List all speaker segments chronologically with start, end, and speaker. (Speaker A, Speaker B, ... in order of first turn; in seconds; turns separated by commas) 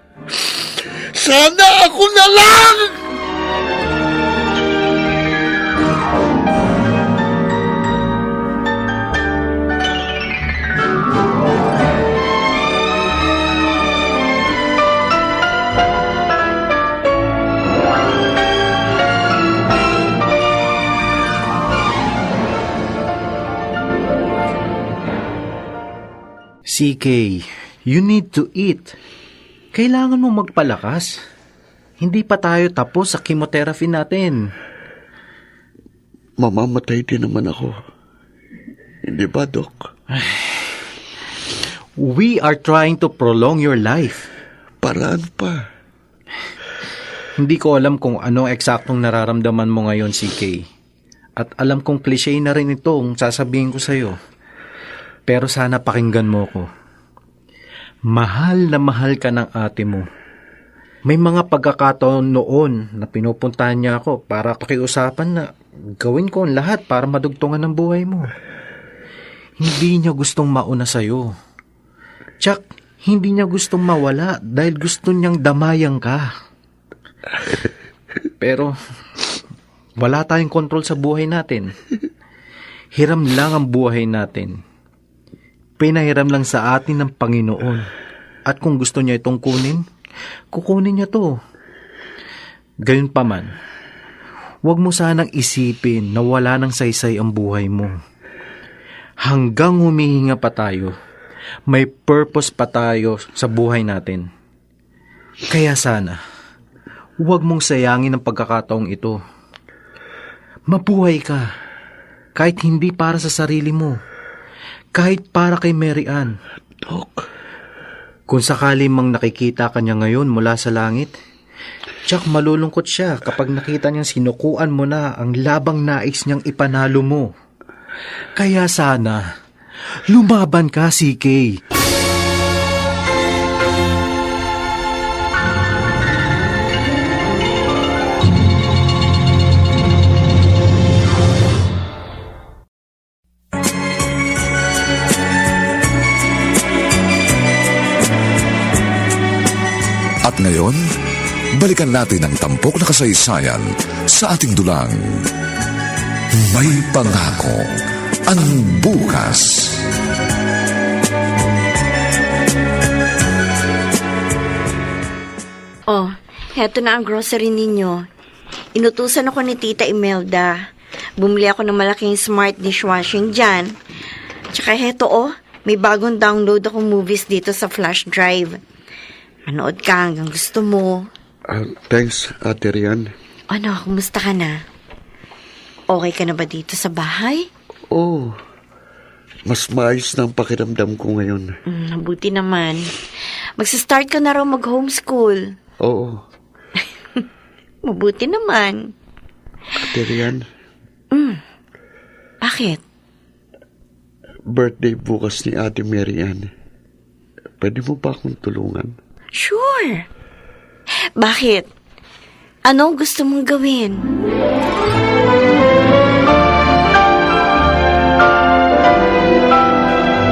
Speaker A: 0.3-3.0, Speaker B: 26.7-28.9, Speaker B: 29.7-31.2, Speaker B: 32.0-34.4, Speaker A: 36.4-37.8, Speaker A: 39.0-39.9, Speaker B: 42.0-44.3, Speaker A: 44.8-45.6, Speaker B: 47.4-50.6, Speaker B: 51.4-54.1, Speaker B: 55.3-56.7, Speaker B: 58.1-60.1, Speaker B: 61.1-65.5, Speaker B: 66.0-68.3, Speaker B: 69.6-71.3, Speaker B: 72.4-76.3, Speaker B: 78.4-78.7, Speaker B: 80.0-81.7, Speaker B: 83.0-84.6, Speaker B: 85.8-87.9, Speaker B: 88.5-89.8, Speaker B: 90.5-91.3, Speaker B: 92.9-93.5, Speaker B: 94.7-98.0, Speaker B: 99.2-100.9, Speaker B: 101.7-104.3, Speaker B: 105.5-106.2, Speaker B: 107.2-109.2, Speaker B: 110.7-111.5, Speaker B: 112.4-114.0, Speaker B: 115.0-116.3, Speaker A: 116.8-117.3, Speaker B: 118.3-121.1, Speaker B: 122.1-127.3, Speaker B: 128.4-129.2, Speaker B: 130.1-131.6, Speaker C: 150.2-150.8, Speaker C: 151.6-155.3, Speaker C: 156.3-157.7, Speaker C: 158.3-159.8, Speaker D: 165.9-168.1, Speaker D: 168.7-170.6, Speaker D: 171.2-173.8, Speaker D: 174.5-178.6, Speaker D: 179.5-181.1, Speaker A: 181.5-183.1, Speaker D: 183.5-184.6, Speaker D: 185.9-187.5, Speaker A: 187.9-188.4, Speaker A: 189.5-191.5, Speaker D: 191.7-192.9, Speaker D: 193.6-195.6, Speaker A: 195.8-196.2, Speaker D: 197.8-198.9, Speaker A: 199.8-200.4, Speaker D: 201.1-201.4, Speaker D: 202.4-202.8, Speaker A: 204.5-206.5, Speaker A: 207.6-208.9, Speaker D: 209.4-210.1, Speaker D: 211.2-211.7, Speaker D: 212.7-214.1